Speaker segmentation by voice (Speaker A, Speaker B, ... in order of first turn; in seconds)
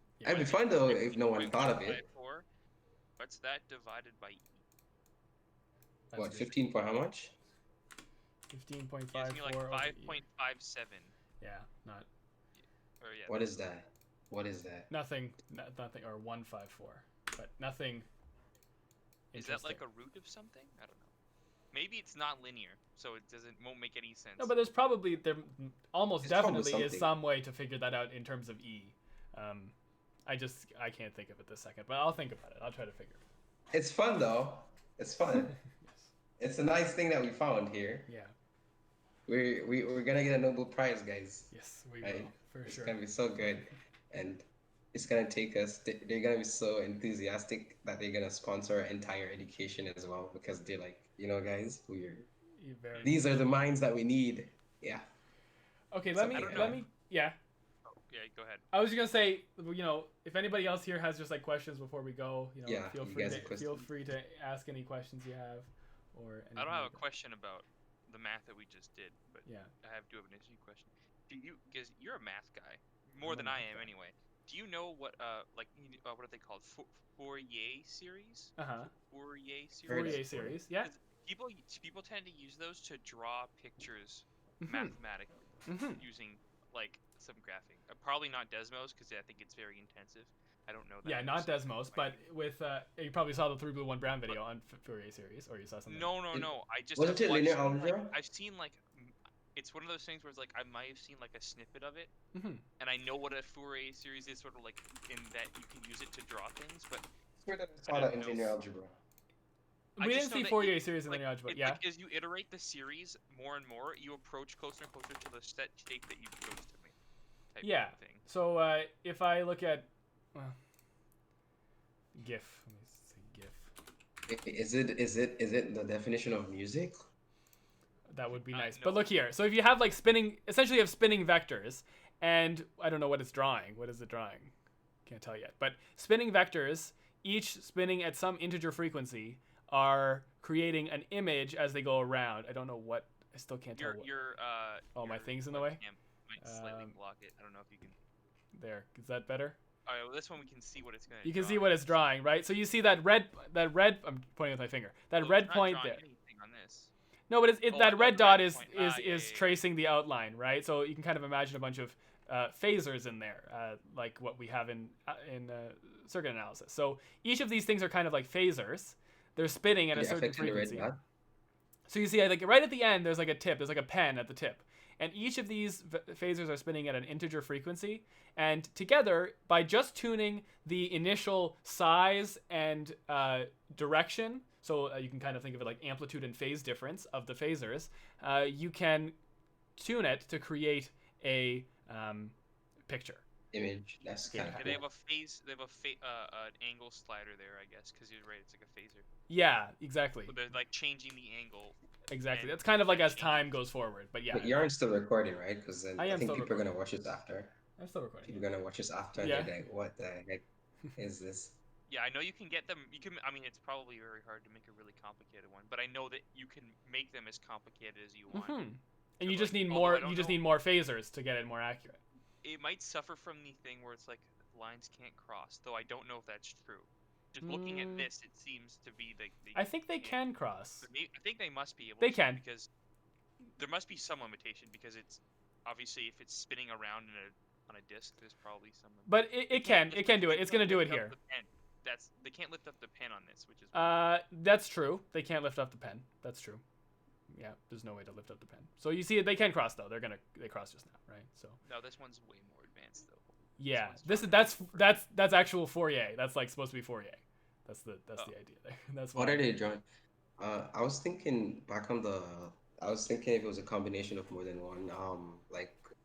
Speaker A: 0.2-0.5, 6.1-6.5, 8.5-10.2, 11.4-12.1, 14.9-18.1, 19.3-19.8, 24.4-29.8, 30.3-33.2, 38.1-38.3, 41.5-43.0, 52.6-53.4, 55.9-57.4, 58.7-67.0, 69.5-69.7, 73.2-73.9, 78.6-78.9, 79.9-80.9, 84.6-84.9, 85.7-86.0, 91.0-96.1, 102.3-102.6, 110.0-111.8, 117.6-120.5, 122.2-123.7, 128.1-134.5, 135.1-144.1, 145.0-145.8, 146.4-146.9, 148.6-149.6, 151.2-156.0, 157.3-170.9, 171.9-189.2, 189.8-192.3, 192.9-193.2, 194.3-194.8, 199.3-200.4, 202.1-204.7, 206.0-206.7, 207.8-208.4, 209.2-209.5, 218.3-222.0, 227.4-228.1, 229.6-230.9, 232.0-232.4, 239.1-241.2, 243.7-246.6, 247.3-251.6, 253.6-259.5
Speaker B: 0.2-2.0, 6.2-7.3, 13.3-14.9, 26.2-27.1, 33.7-35.6, 36.4-38.1, 39.3-52.3, 53.0-55.1, 56.1-56.8, 62.7-63.9, 79.9-80.6, 96.3-98.1, 107.4-109.0, 124.3-127.0, 169.9-171.0, 193.5-194.8, 204.3-207.5, 208.3-210.4, 211.0-211.6, 259.1-259.9, 260.4-265.8
Speaker C: 0.2-2.5, 3.2-4.6, 9.1-11.2, 13.0-13.5, 19.4-21.1, 21.7-24.6, 56.3-56.8, 57.9-58.6, 66.6-78.5, 79.0-80.3, 80.8-92.2, 95.9-102.1, 102.8-107.0, 107.8-108.6, 110.0-116.9, 117.5-118.2, 128.3-129.1, 143.8-148.0, 149.9-152.0, 155.2-156.9, 157.7-159.6, 194.5-199.1, 200.3-201.8, 202.3-203.6, 211.9-218.6, 219.2-220.5, 222.4-230.2, 230.8-232.7, 233.6-244.1, 251.6-255.0